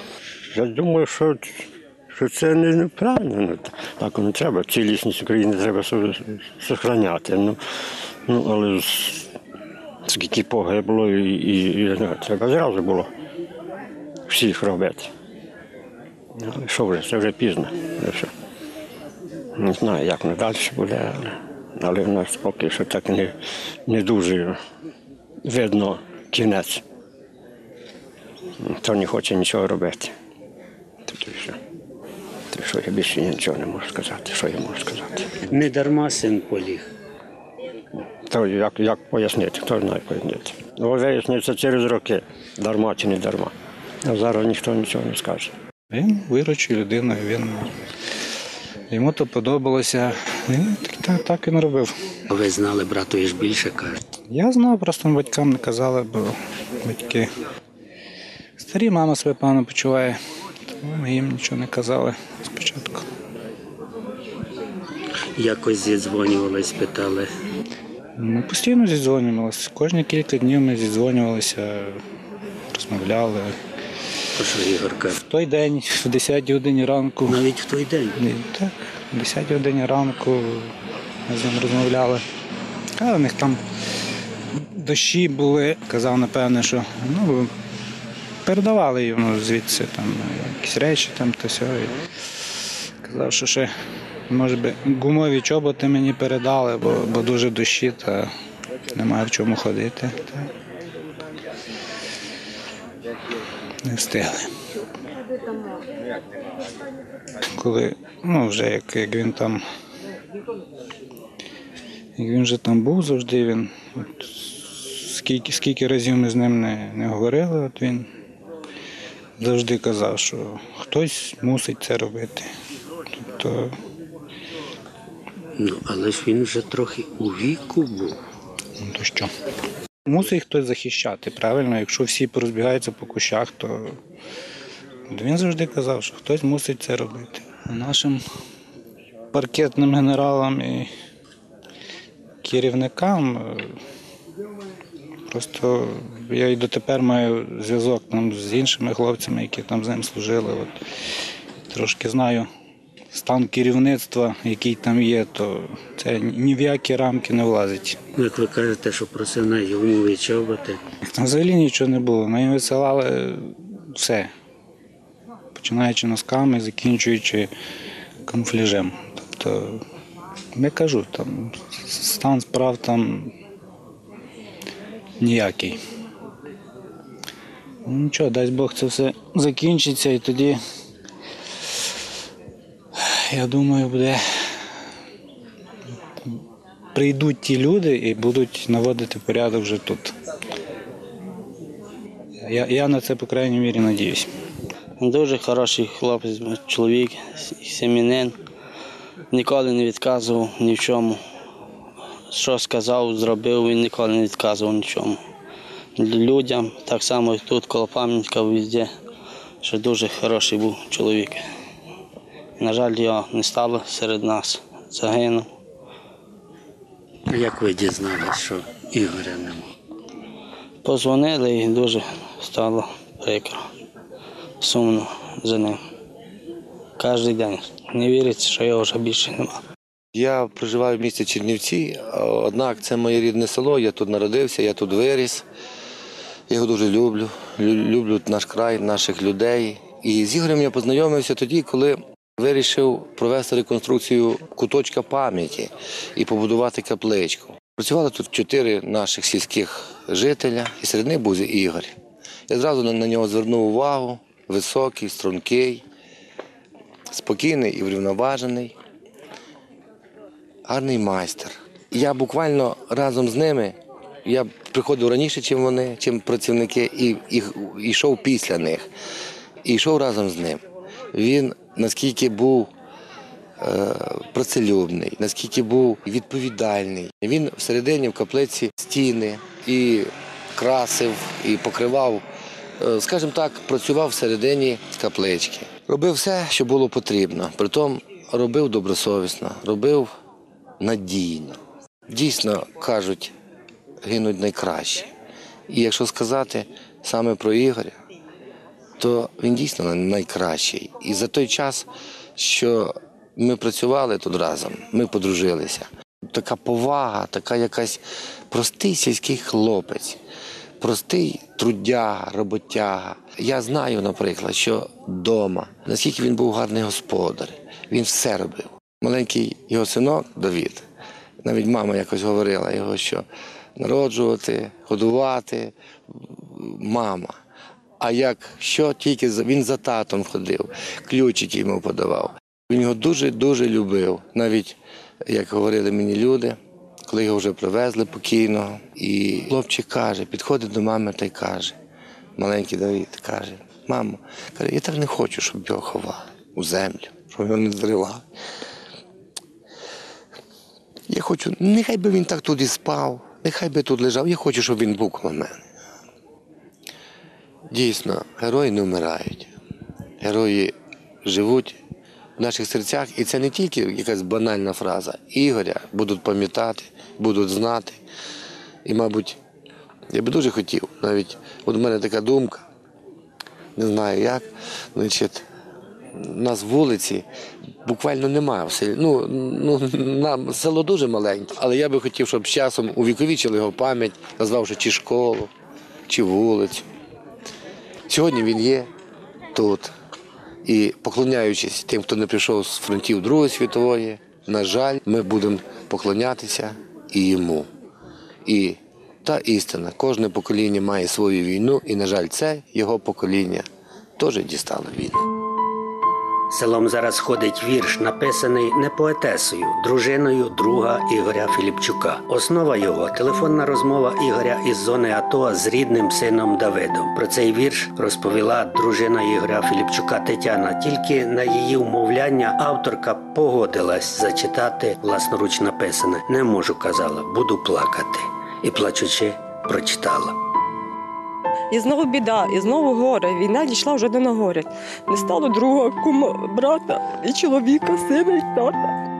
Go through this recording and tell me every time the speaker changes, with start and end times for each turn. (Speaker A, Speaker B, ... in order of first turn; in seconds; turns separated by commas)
Speaker A: 0.5-7.6, Speaker A: 8.3-9.3, Speaker A: 10.1-13.1, Speaker A: 14.3-15.1, Speaker A: 16.4-18.3, Speaker A: 19.6-23.3, Speaker A: 23.9-24.6, Speaker A: 25.4-26.8, Speaker A: 28.6-30.1, Speaker A: 31.1-31.6, Speaker A: 32.5-35.3, Speaker B: 35.5-36.9, Speaker A: 38.3-43.5, Speaker A: 44.0-45.5, Speaker C: 45.9-47.7, Speaker C: 48.9-51.9, Speaker B: 52.3-54.0, Speaker C: 54.3-56.3, Speaker C: 56.8-57.3, Speaker C: 58.6-60.1, Speaker C: 60.8-63.0, Speaker B: 65.4-67.3, Speaker C: 68.2-72.0, Speaker C: 72.7-73.5, Speaker B: 74.3-75.2, Speaker C: 75.2-77.4, Speaker B: 77.2-78.2, Speaker C: 78.2-80.7, Speaker C: 81.3-82.2, Speaker C: 83.0-83.6, Speaker C: 84.5-87.5, Speaker C: 88.5-91.9, Speaker C: 93.0-93.7, Speaker C: 94.3-98.3, Speaker C: 98.9-100.5, Speaker C: 103.8-104.5, Speaker C: 107.5-109.6, Speaker C: 112.2-118.0, Speaker C: 119.4-122.5, Speaker C: 123.3-123.7, Speaker B: 125.6-128.2, Speaker C: 128.8-129.3, Speaker C: 130.1-133.9, Speaker C: 135.1-138.2, Speaker C: 139.3-140.9, Speaker C: 142.4-143.7, Speaker C: 145.3-150.7, Speaker C: 151.7-152.5, Speaker C: 153.1-158.0, Speaker B: 158.2-160.8, Speaker C: 161.2-164.3, Speaker C: 165.5-167.5, Speaker C: 168.3-169.8, Speaker C: 170.5-173.3, Speaker C: 175.2-175.8, Speaker C: 177.8-180.6, Speaker C: 183.0-184.2, Speaker C: 186.9-190.1, Speaker C: 192.5-194.3, Speaker D: 195.0-198.4, Speaker D: 199.3-201.2, Speaker D: 202.3-205.2, Speaker D: 206.0-208.9, Speaker D: 209.6-211.4, Speaker D: 212.6-215.5, Speaker B: 217.3-219.7, Speaker D: 220.8-223.6, Speaker D: 224.6-225.8, Speaker D: 227.0-229.6, Speaker E: 230.1-235.4, Speaker E: 236.5-251.9, Speaker E: 252.5-255.8, Speaker E: 257.1-258.7, Speaker E: 260.6-268.9, Speaker E: 269.6-270.6, Speaker E: 271.1-272.7, Speaker E: 273.6-282.2, Speaker E: 282.8-290.1, Speaker E: 290.8-291.6, Speaker E: 292.1-293.3, Speaker E: 294.0-295.1, Speaker E: 295.7-297.9, Speaker E: 299.0-310.2, Speaker E: 310.8-320.8, Speaker E: 321.4-323.2, Speaker E: 323.8-325.7, Speaker E: 326.5-327.3, Speaker E: 328.0-336.6, Speaker E: 337.1-341.8, Speaker E: 342.4-348.2, Speaker E: 351.1-355.6, Speaker E: 357.7-359.5, Speaker E: 360.2-360.7, Speaker E: 361.2-361.8, Speaker E: 362.4-368.0, Speaker E: 368.8-369.4, Speaker E: 370.1-372.6, Speaker E: 373.8-375.4, Speaker E: 376.1-377.2, Speaker E: 377.8-385.5, Speaker E: 386.1-386.9, Speaker E: 388.1-388.9, Speaker E: 389.5-389.9, Speaker E: 390.6-397.7, Speaker E: 398.4-403.6, Speaker E: 404.2-405.2, Speaker B: 406.5-430.3, Speaker F: 431.7-438.8